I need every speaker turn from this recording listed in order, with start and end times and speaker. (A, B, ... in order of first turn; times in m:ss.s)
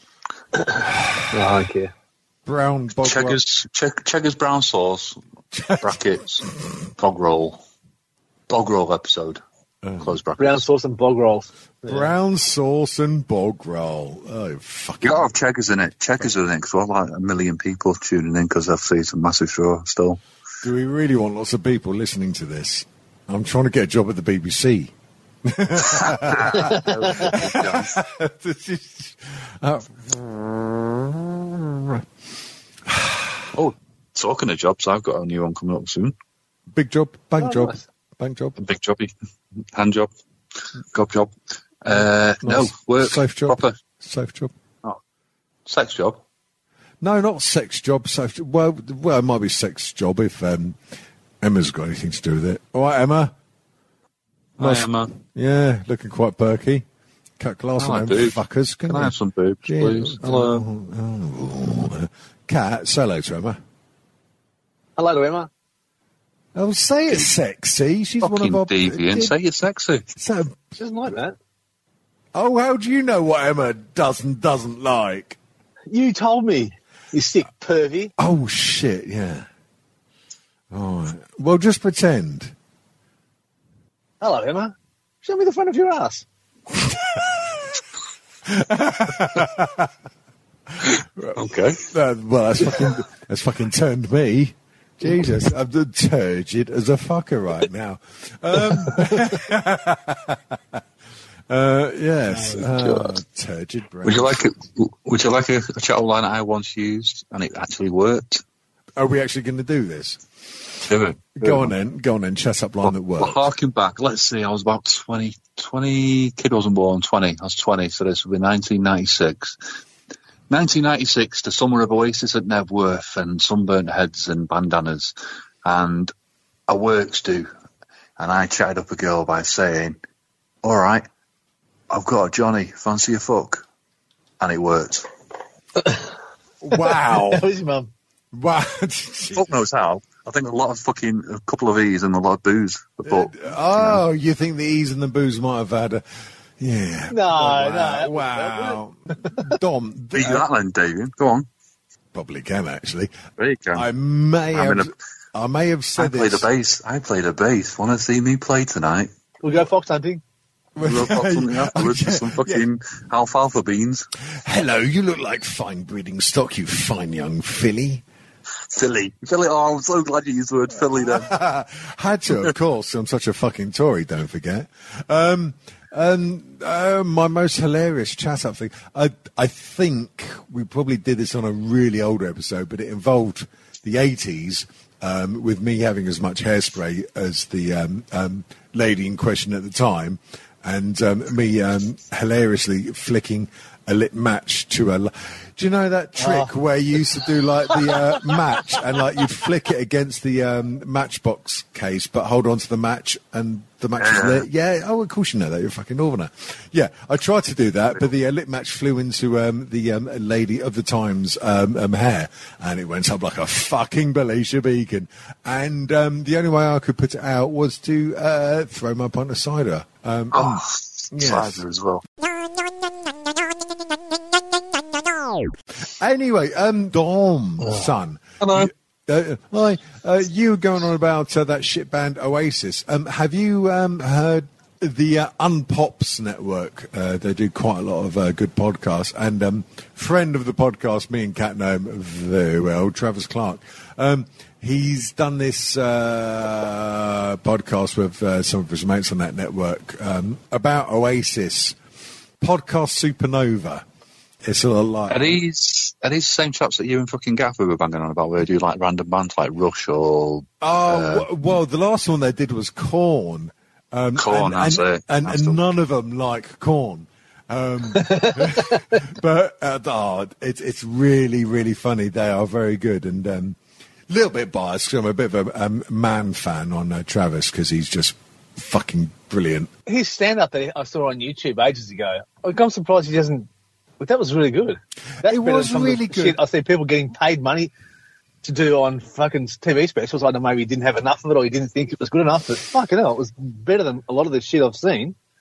0:01.3-0:01.9 A
0:02.4-0:03.4 B
0:03.0-0:05.2 C
0:05.5-0:06.0 B
0:05.8-0:07.6 C
0:08.5-0:09.4 C
0:09.8-0:10.2 B
0:10.0-0:10.6 C
0:10.4-0:12.1 A
0:11.8-0:15.3 B
0:15.0-0:20.2 C
0:20.6-0:24.9 B
0:25.4-0:32.1 B
0:25.8-0:28.0 C
0:26.5-0:27.3 A
0:32.8-0:33.5 B
0:33.5-0:36.1 C
0:36.7-0:38.6 B
0:37.4-0:37.8 A
0:38.6-0:39.1 C
0:39.7-0:40.1 C
0:40.9-0:41.3 C
0:41.8-0:43.7 C
0:41.9-0:44.5 B
0:45.6-0:46.2 C
0:47.0-0:50.8 B
0:51.4-0:53.3 B
0:54.6-0:55.1 C
0:54.6-0:56.8 B
0:57.4-0:59.1 B
0:57.8-1:00.6 C
0:59.6-1:03.6 B
1:05.0-1:05.5 A
1:06.5-1:09.3 B
1:08.2-1:10.0 C
1:10.2-1:10.6 B
1:10.8-1:11.4 A
1:12.3-1:15.4 B
1:15.9-1:18.1 A
1:18.2-1:19.5 B
1:20.7-1:22.5 B
1:24.2-1:26.2 A
1:26.8-1:27.6 B
1:28.4-1:29.9 B
1:30.7-1:31.4 B
1:31.3-1:31.8 C
1:31.9-1:40.8 B
1:41.5-1:44.4 B
1:42.4-1:43.2 C
1:44.0-1:48.4 C
1:49.0-1:50.2 B
1:50.9-1:51.7 C
1:51.4-1:53.5 B
1:52.8-1:59.6 C
2:00.5-2:05.1 C
2:05.6-2:06.1 C
2:06.7-2:07.5 C
2:08.2-2:10.0 C
2:10.6-2:11.0 C
2:11.9-2:13.6 C
2:14.4-2:15.1 C
2:15.8-2:16.1 A
2:16.6-2:17.4 B
2:16.8-2:17.9 A
2:18.3-2:19.5 B
2:19.3-2:24.0 C
2:23.0-2:26.0 B
2:26.6-2:30.4 B
2:27.1-2:28.8 A
2:30.1-2:31.5 C
2:32.1-2:33.1 B
2:33.4-2:33.9 C
2:33.7-2:36.5 B
2:34.5-2:34.9 C
2:36.0-2:39.1 C
2:39.4-2:40.2 A
2:40.8-2:42.6 B
2:40.8-2:44.1 C
2:44.4-2:48.0 B
2:48.7-2:51.3 C
2:50.9-3:41.6 B
3:16.2-3:16.5 A
3:24.0-3:24.4 C
3:40.3-3:42.0 C
3:45.9-4:11.8 B
3:47.6-3:47.9 C
3:48.4-3:48.7 C
4:12.4-4:13.8 B
4:14.4-4:15.4 B
4:15.1-4:21.2 C
4:20.6-4:33.6 B
4:24.2-4:25.6 C
4:27.9-4:29.0 A
4:34.1-4:39.7 B
4:39.9-4:43.5 A
4:44.0-4:47.7 A
4:45.2-4:46.4 B
4:48.4-4:55.1 A